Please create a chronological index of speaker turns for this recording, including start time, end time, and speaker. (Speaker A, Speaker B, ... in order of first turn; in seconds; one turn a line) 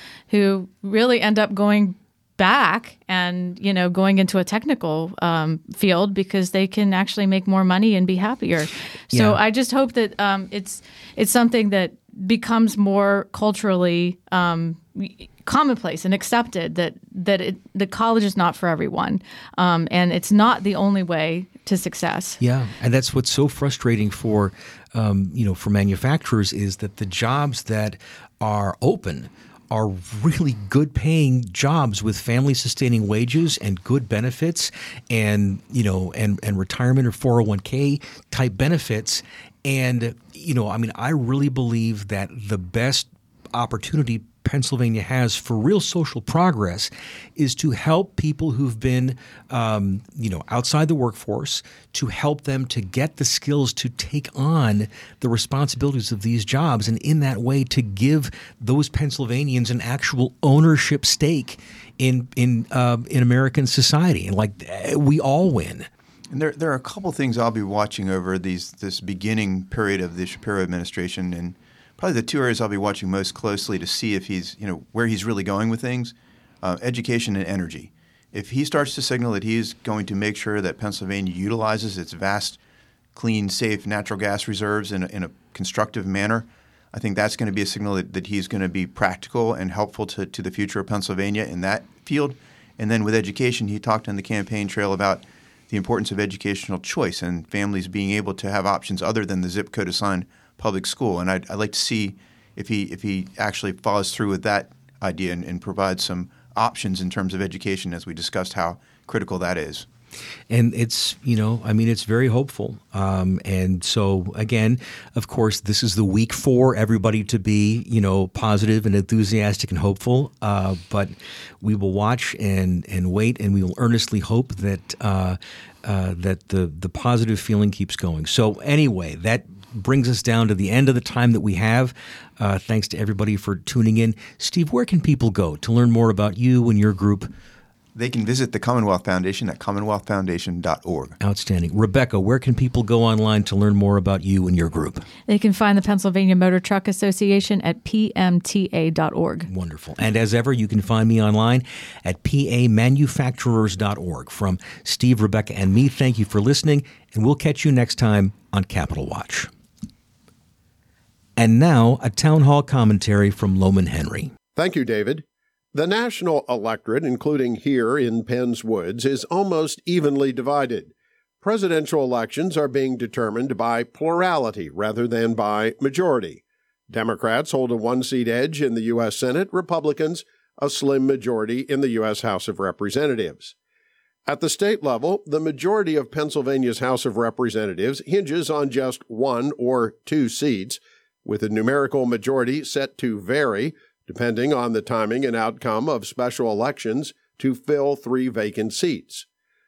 Speaker A: 0.3-22.4
Speaker B: 9.1-9.4
Speaker B: 22.4-65.9
Speaker C: 66.3-82.6
Speaker C: 83.2-109.9
Speaker B: 110.5-137.3
Speaker C: 137.9-141.2
Speaker B: 141.2-145.1
Speaker A: 145.3-149.5
Speaker B: 149.5-159.5
Speaker B: 161.4-164.3
Speaker D: 164.6-183.6
Speaker D: 184.3-199.3